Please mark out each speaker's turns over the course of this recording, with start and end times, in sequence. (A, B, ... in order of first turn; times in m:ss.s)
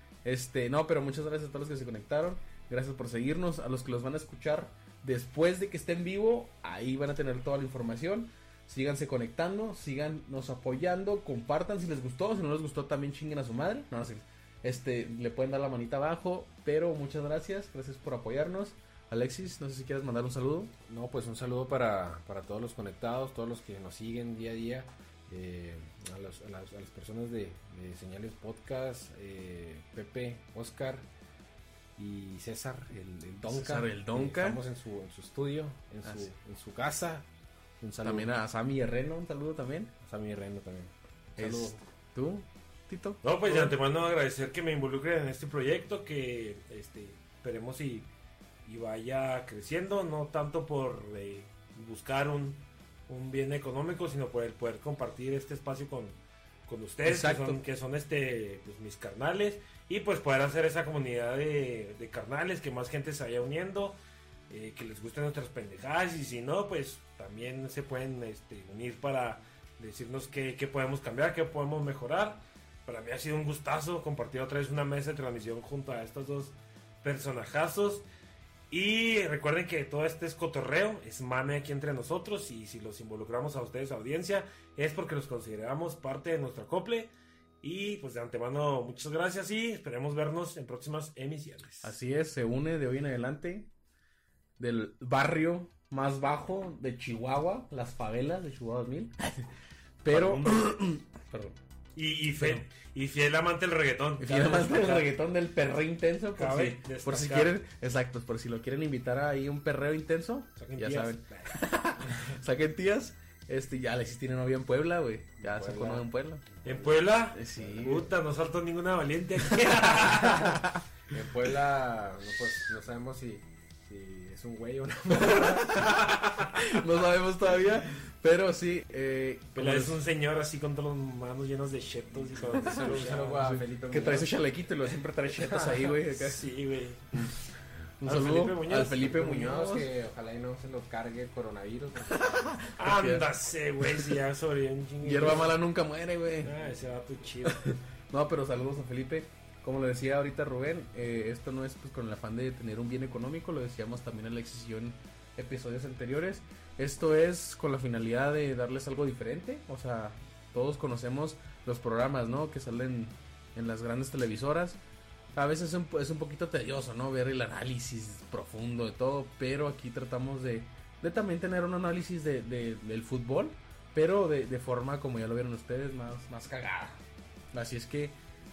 0:00.2-0:20.7 A
0:20.9-0:31.1 B
0:32.0-0:37.3 B
0:33.5-0:34.6 A
0:37.8-0:38.3 B
0:38.0-0:39.9 A
0:40.0-0:41.8 B
0:41.4-0:43.8 A
0:43.2-0:48.1 C
0:48.6-1:04.0 C
0:57.0-0:57.6 A
1:04.5-1:18.1 C
1:18.7-1:32.0 C
1:31.8-1:33.7 A
1:34.6-1:39.5 A
1:40.0-1:41.6 A
1:40.1-1:40.6 C
1:42.0-1:45.1 C
1:42.4-1:42.6 A
1:44.2-1:56.5 A
1:46.4-1:47.6 C
1:50.6-1:52.2 C
1:55.4-1:56.1 B
1:56.6-2:00.6 C
1:57.3-1:58.1 A
1:57.6-1:57.9 B
1:59.6-2:00.8 A
2:00.2-2:06.2 B
2:05.1-2:10.0 A
2:06.1-2:06.4 C
2:09.6-2:13.5 C
2:12.3-2:14.4 B
2:13.4-2:16.5 A
2:15.3-2:16.0 B
2:16.1-2:17.4 C
2:18.0-2:19.9 A
2:18.0-2:19.1 C
2:18.9-2:22.8 B
2:22.1-2:24.1 A
2:22.8-2:25.6 C
2:25.0-2:26.5 A
2:26.4-2:27.8 C
2:27.4-2:44.8 A
2:45.3-2:57.0 A
2:57.5-2:58.2 A